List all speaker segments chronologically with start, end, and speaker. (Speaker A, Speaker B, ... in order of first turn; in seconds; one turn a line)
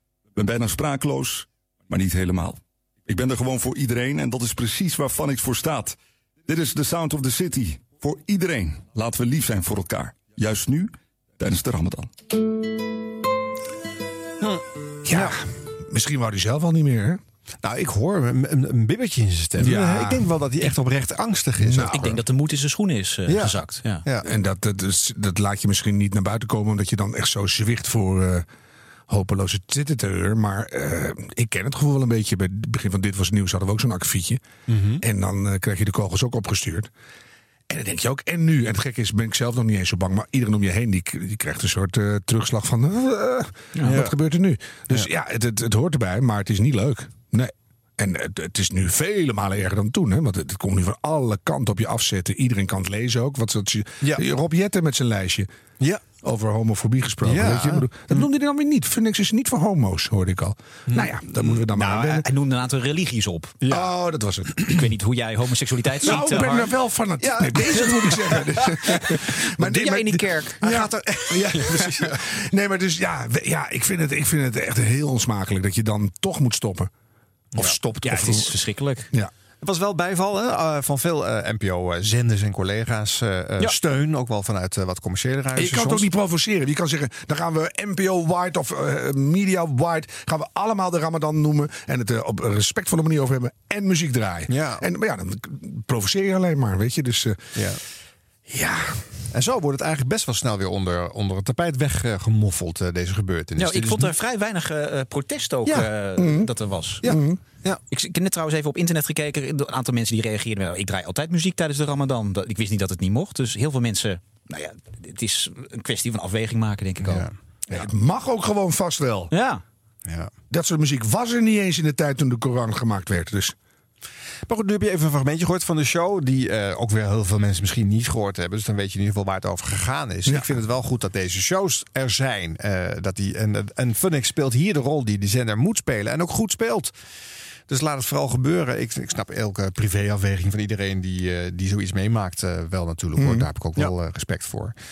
Speaker A: 0.3-6.0
Speaker A: 6.5-12.1
Speaker B: 14.4-15.3
Speaker C: 15.1-17.2
Speaker B: 17.6-22.2
Speaker C: 19.6-20.2
Speaker C: 21.6-22.0
Speaker D: 21.9-24.0
Speaker B: 23.3-24.3
Speaker C: 24.2-28.4
Speaker C: 29.1-34.4
Speaker B: 34.7-35.0
Speaker C: 35.0-36.9
Speaker C: 37.7-55.5
Speaker B: 43.8-44.1
Speaker C: 56.2-62.2
Speaker B: 57.2-58.3
Speaker B: 60.9-61.5
Speaker D: 61.7-63.5
Speaker B: 63.6-63.9
Speaker C: 63.6-64.6
Speaker B: 64.6-64.8
Speaker D: 64.7-66.7
Speaker C: 66.0-76.9
Speaker B: 66.0-66.5
Speaker B: 67.2-69.2
Speaker D: 69.6-70.6
Speaker B: 70.6-72.2
Speaker C: 77.5-78.6
Speaker D: 77.6-79.1
Speaker B: 79.6-86.1
Speaker C: 85.5-97.5
Speaker B: 94.5-94.8
Speaker C: 98.5-99.0
Speaker B: 99.3-104.1
Speaker D: 103.6-107.0
Speaker B: 105.6-105.9
Speaker C: 106.2-106.5
Speaker B: 107.0-107.8
Speaker C: 107.0-107.4
Speaker D: 107.9-117.8
Speaker B: 117.0-117.3
Speaker C: 117.7-119.3
Speaker D: 119.3-119.6
Speaker B: 120.0-120.3
Speaker C: 120.5-123.5
Speaker B: 124.5-136.9
Speaker C: 130.3-130.6
Speaker B: 137.7-144.7
Speaker C: 143.2-143.5